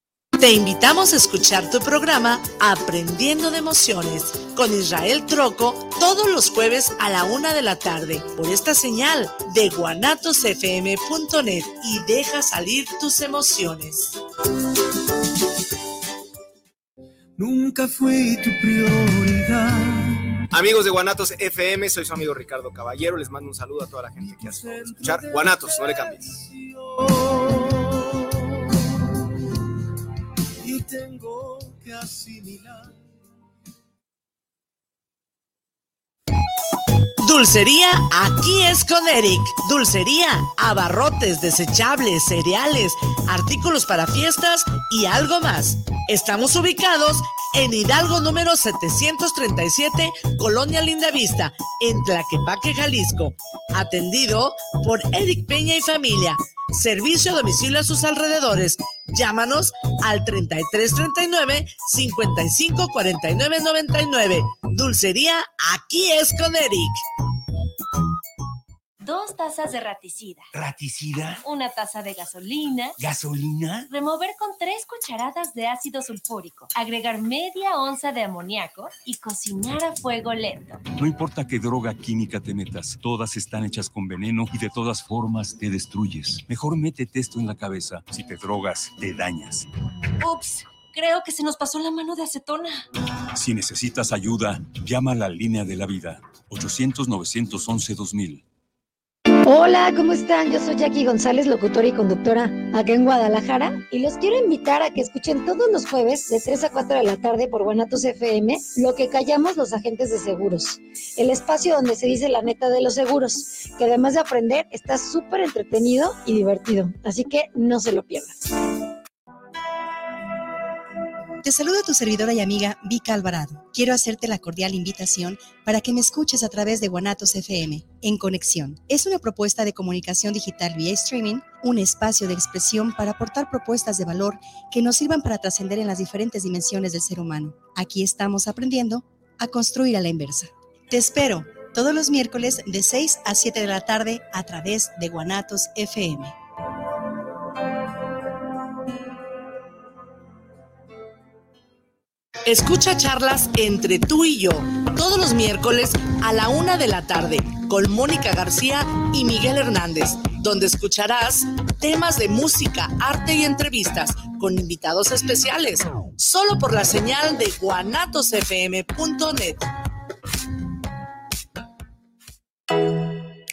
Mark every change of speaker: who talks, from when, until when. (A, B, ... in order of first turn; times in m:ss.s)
0:00.4-0:14.2 A
0:17.4-0:20.0 B
0:20.5-0:26.4 C
0:27.3-0:27.6 B
0:30.7-0:32.8 B
0:37.2-1:07.0 A
1:09.0-1:10.5 D
1:10.5-1:11.4 E
1:11.4-1:13.0 D
1:13.0-1:13.9 E
1:13.9-1:20.8 D
1:21.0-1:29.7 E
1:30.2-1:32.9 D
1:33.3-1:38.4 E
1:39.4-1:58.4 F
2:01.4-2:26.4 G
2:32.4-2:49.7 A